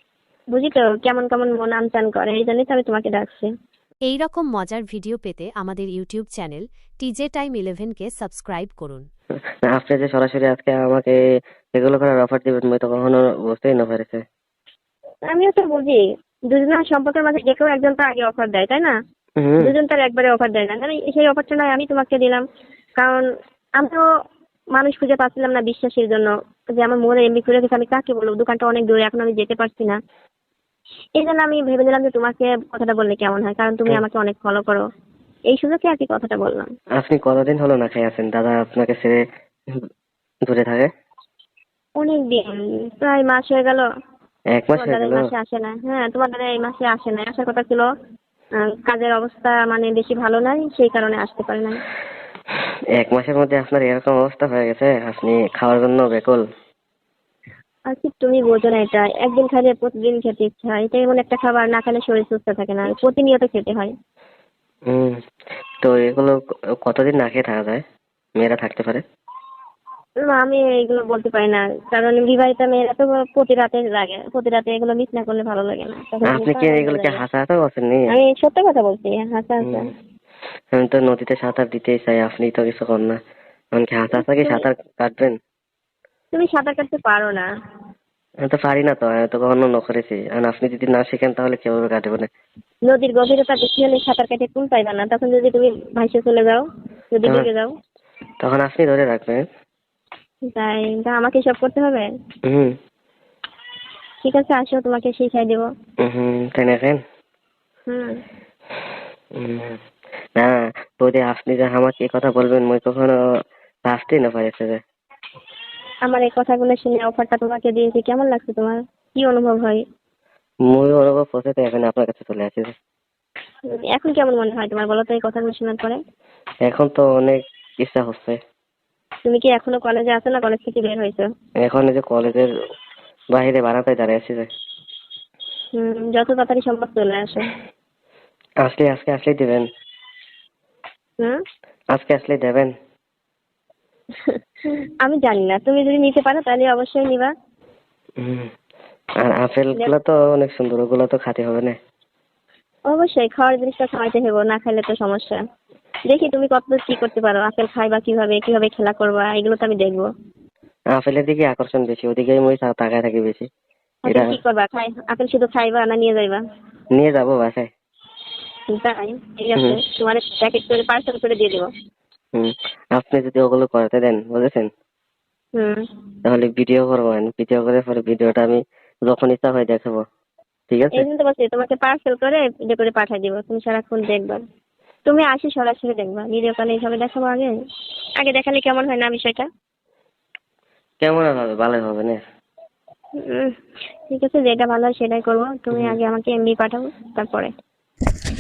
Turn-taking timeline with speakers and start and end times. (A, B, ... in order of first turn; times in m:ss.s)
0:00.5-0:03.5 A
0:04.0-0:09.1 B
0:09.7-0:11.2 C
0:11.8-0:14.2 C
0:15.3-0:16.0 A
0:16.5-0:18.9 A
0:19.4-0:19.8 C
0:19.6-0:22.4 A
0:23.0-0:23.3 A
0:24.8-0:30.0 A
0:31.2-0:34.8 A
0:35.5-0:36.7 A
0:37.0-0:39.2 C
0:40.5-0:40.9 C
0:42.0-0:43.8 A
0:44.6-0:45.3 C
0:44.8-0:47.9 A
0:48.6-0:51.8 A
0:53.0-0:56.4 C
0:57.9-1:03.9 A
1:04.9-1:05.2 C
1:05.8-1:07.8 C
1:08.4-1:09.0 C
1:10.3-1:17.2 A
1:16.3-1:18.1 C
1:18.1-1:19.9 A
1:20.7-1:23.2 C
1:23.8-1:25.4 C
1:24.2-1:24.6 A
1:26.3-1:27.4 A
1:28.5-1:32.3 C
1:32.9-1:37.7 A
1:38.4-1:39.4 C
1:40.5-1:42.1 A
1:42.5-1:42.7 C
1:44.2-1:45.6 A
1:46.0-1:47.0 C
1:47.9-1:48.2 A
1:49.4-1:49.8 C
1:50.4-1:53.2 C
1:53.9-1:54.8 C
1:56.1-1:59.8 A
2:00.7-2:02.7 C
2:03.7-2:06.0 A
2:06.6-2:08.4 C
2:09.2-2:11.3 A
2:11.6-2:12.5 C
2:13.4-2:14.5 C
2:15.7-2:17.5 A
2:18.6-2:19.6 C
2:22.0-2:22.7 C
2:25.0-2:27.3 A
2:28.2-2:28.5 C
2:29.2-2:31.8 C
2:32.9-2:35.4 A
2:36.1-2:40.1 A
2:41.0-2:43.5 C
2:44.1-2:46.4 A
2:44.1-2:44.4 C
2:47.0-2:47.7 C
2:48.7-2:51.7 A
2:52.4-2:54.7 C
2:55.6-2:55.8 A
2:56.2-3:00.0 C
3:00.7-3:01.1 C
3:01.0-3:04.4 A
3:05.1-3:07.5 A
3:08.2-3:09.5 A
3:11.0-3:12.2 C
3:13.2-3:13.5 A
3:14.1-3:17.5 A